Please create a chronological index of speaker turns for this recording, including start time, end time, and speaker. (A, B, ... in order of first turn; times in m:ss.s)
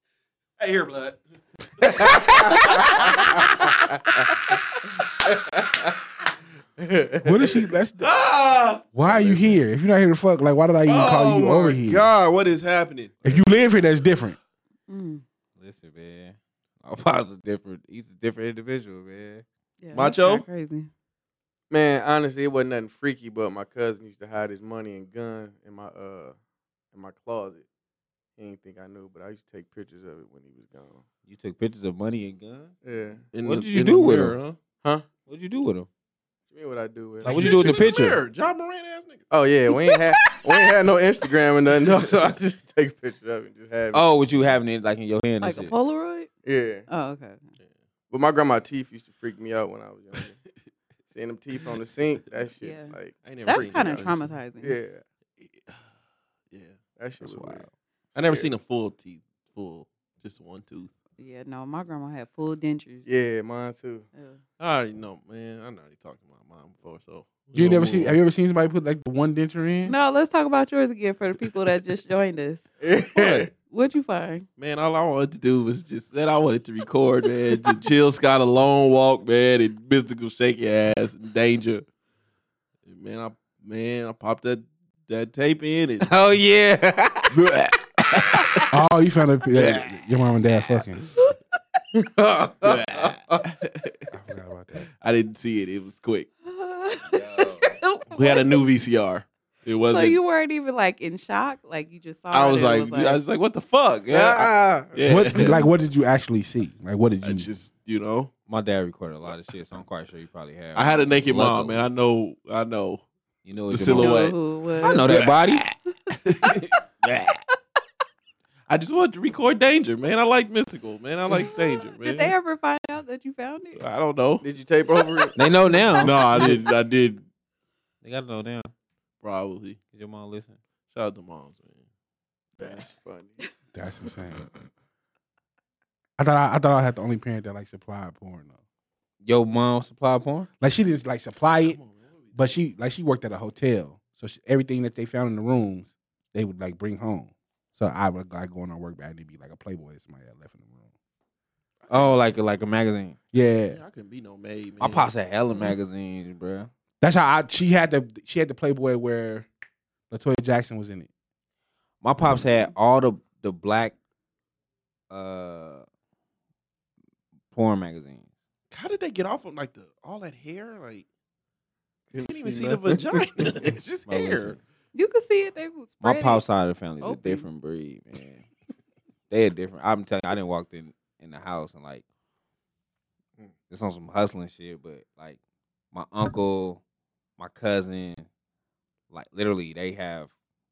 0:00.6-0:01.2 A
0:01.8-0:03.8 A
0:02.1-0:03.0 B
0:05.3-0:05.8 C
0:06.8-0:07.6 C
0:07.2-0:08.1 D
0:08.0-0:08.9 A
0:08.9-0:12.1 D
0:09.0-0:09.6 C
0:10.9-0:13.4 A
0:13.2-0:14.4 D
0:14.9-0:15.2 E
0:15.6-0:19.4 B
0:19.8-0:20.9 E
0:19.9-0:20.4 A
0:21.7-0:26.4 C
0:26.9-0:27.6 C
0:28.4-0:31.0 C
0:31.3-0:32.7 B
0:32.8-0:33.3 C
0:33.3-0:34.6 A
0:33.4-0:34.4 B
0:35.3-0:35.9 B
0:36.5-0:37.8 C
0:37.2-0:38.2 B
0:37.2-0:39.2 A
0:39.3-0:44.1 C
0:43.9-0:45.7 B
0:45.4-0:46.3 E
0:46.4-0:46.9 C
0:46.9-0:47.4 E
0:48.1-0:50.4 C
0:51.1-0:55.0 C
0:52.6-0:54.8 E
0:53.2-0:54.3 A
0:55.4-0:55.8 A
0:56.5-0:56.8 A
0:57.0-0:58.5 C
0:57.2-0:57.7 B
0:58.2-1:00.9 A
1:01.2-1:03.1 E
1:03.1-1:04.1 C
1:04.1-1:04.4 E
1:04.6-1:08.2 A
1:07.5-1:10.0 D
1:09.9-1:12.6 E
1:12.8-1:13.5 C
1:13.2-1:13.5 A
1:13.6-1:14.5 E
1:14.6-1:21.8 A
1:22.9-1:26.1 A
1:26.0-1:28.7 B
1:28.7-1:31.0 D
1:29.6-1:29.9 B
1:32.0-1:33.1 C
1:32.5-1:33.2 B
1:33.4-1:34.0 A
1:34.1-1:34.9 D
1:35.0-1:36.3 A
1:36.4-1:38.6 E
1:37.1-1:37.8 B
1:38.1-1:40.2 A
1:39.9-1:43.2 E
1:42.3-1:45.6 A
1:44.1-1:45.3 C
1:45.1-1:47.5 D
1:47.2-1:48.3 A
1:48.5-1:51.8 B
1:50.8-1:53.0 A
1:53.4-1:54.2 B
1:53.7-1:55.6 A
1:54.0-1:55.1 E
1:54.8-1:55.7 B
1:56.3-1:56.7 A
1:57.0-1:57.4 B
1:58.7-2:02.3 A
2:01.3-2:03.8 E
2:03.8-2:04.4 A
2:04.4-2:05.5 C
2:05.4-2:06.3 B
2:06.0-2:07.3 A
2:06.0-2:06.6 C
2:08.0-2:08.7 B
2:09.2-2:09.8 A
2:09.9-2:10.6 B
2:10.9-2:11.8 A
2:12.6-2:13.4 C
2:13.7-2:14.5 D
2:16.2-2:18.6 D
2:19.2-2:20.5 B
2:20.6-2:21.8 D
2:21.6-2:22.4 A
2:22.4-2:30.9 D
2:31.8-2:32.2 A
2:31.9-2:33.2 B
2:33.3-2:33.8 D
2:33.7-2:35.1 A
2:34.8-2:36.7 B
2:37.0-2:39.5 D
2:40.1-2:41.1 D
2:42.0-2:44.0 B
2:45.1-2:45.8 B
2:47.5-2:48.2 B
2:48.7-2:51.0 A
2:52.1-2:53.8 C
2:52.2-2:54.6 A
2:54.1-2:54.6 B
2:54.9-2:56.4 E
2:56.0-2:58.5 B
2:57.0-2:57.5 E
2:59.3-3:02.0 B
3:03.7-3:05.4 B
3:05.9-3:06.8 B
3:07.4-3:08.3 B
3:09.1-3:10.3 B